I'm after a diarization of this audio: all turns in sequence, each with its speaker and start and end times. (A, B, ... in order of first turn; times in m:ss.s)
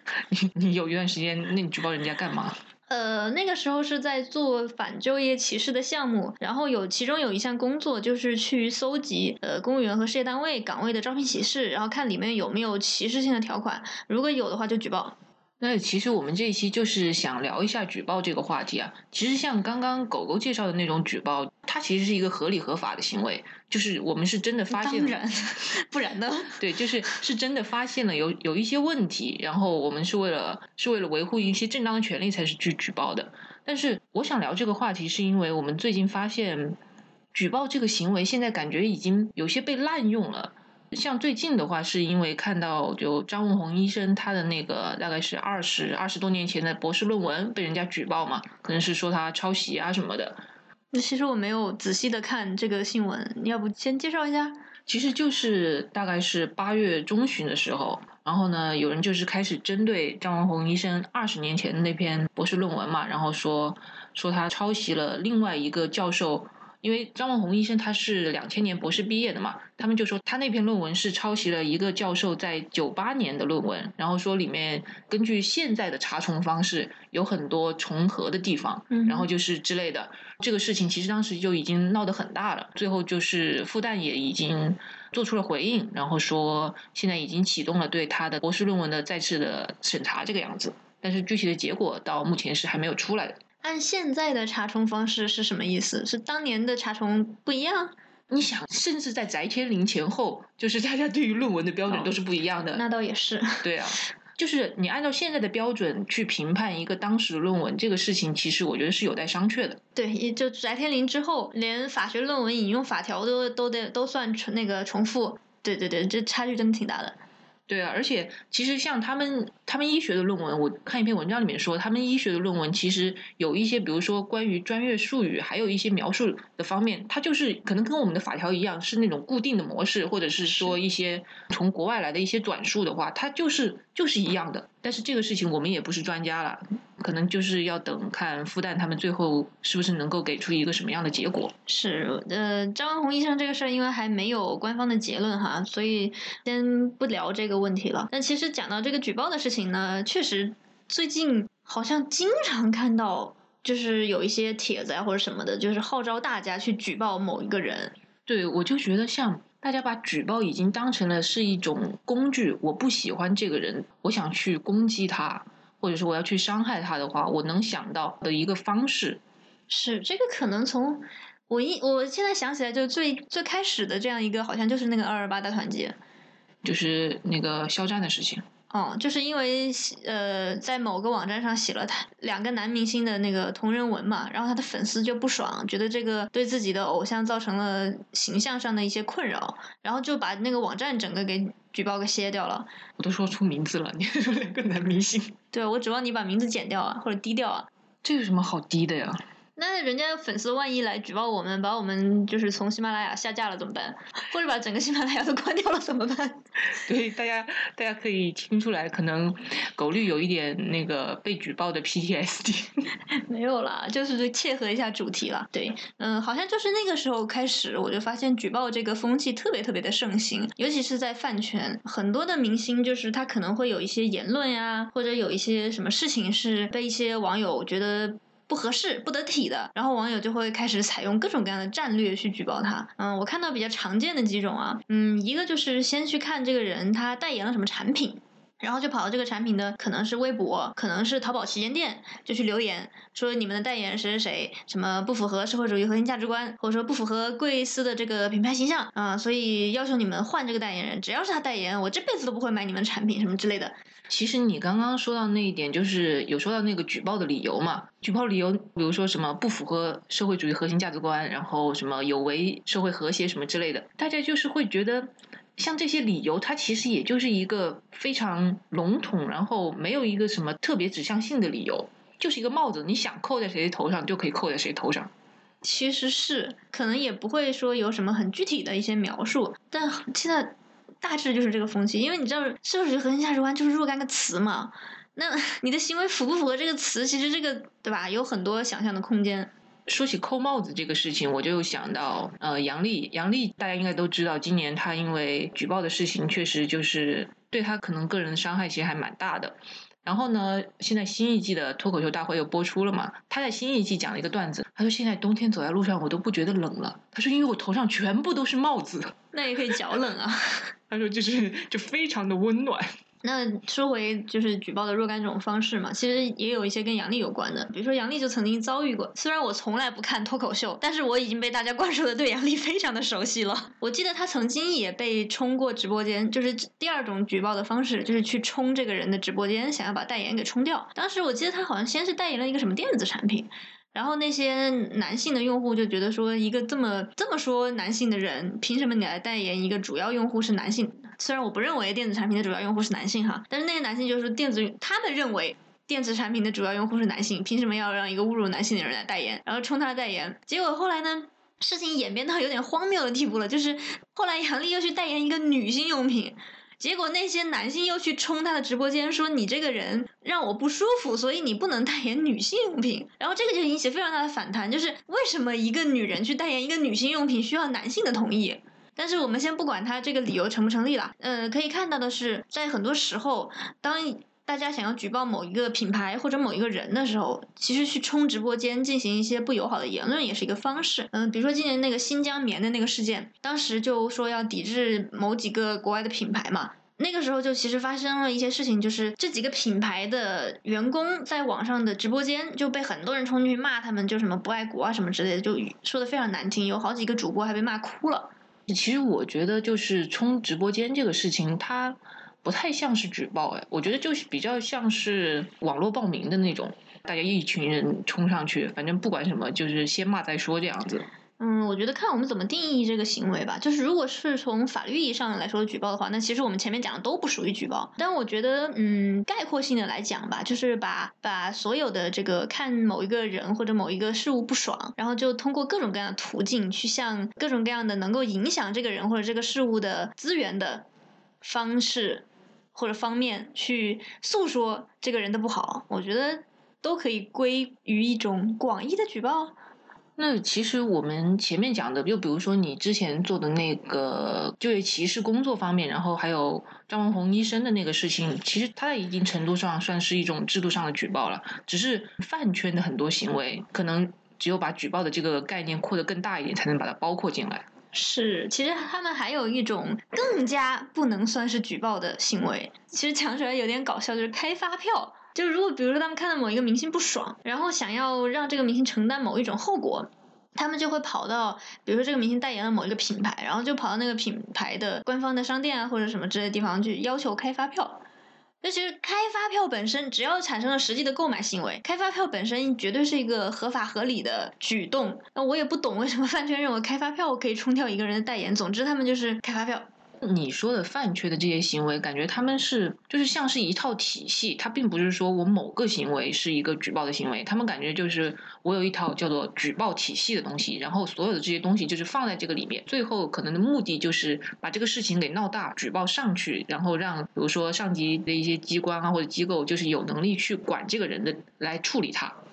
0:00.3-0:02.6 A
0:02.9-0:15.1 B
0:15.6-0:25.2 A
0:24.7-0:26.6 B
0:26.6-0:36.8 A
0:37.3-0:50.4 A
0:50.9-0:54.5 B
0:54.9-1:33.4 A
1:18.9-1:19.2 B
1:33.6-1:37.9 B
1:38.3-1:42.8 A
1:42.7-1:43.7 B
1:43.6-1:49.8 A
1:49.9-1:57.2 B
1:57.7-2:21.5 A
2:21.7-2:37.9 B
2:38.3-2:49.2 A
2:49.7-2:56.0 B
2:56.6-2:58.4 A
2:58.7-3:12.7 B
3:13.0-3:15.3 A
3:15.5-3:17.7 B
3:18.0-3:19.2 A
3:19.6-3:26.4 B
3:26.8-3:32.9 A
3:33.2-4:13.8 B
4:14.1-4:35.1 A
4:35.6-4:49.5 B
4:49.9-5:09.1 A
5:09.3-5:10.7 B
5:10.9-5:12.9 A
5:13.2-6:38.3 B
6:38.7-6:51.1 A
6:51.4-7:10.8 B
7:11.4-7:19.5 B
7:20.2-7:37.6 A
7:37.9-7:58.0 B
7:58.6-8:09.8 B
8:10.2-8:32.4 A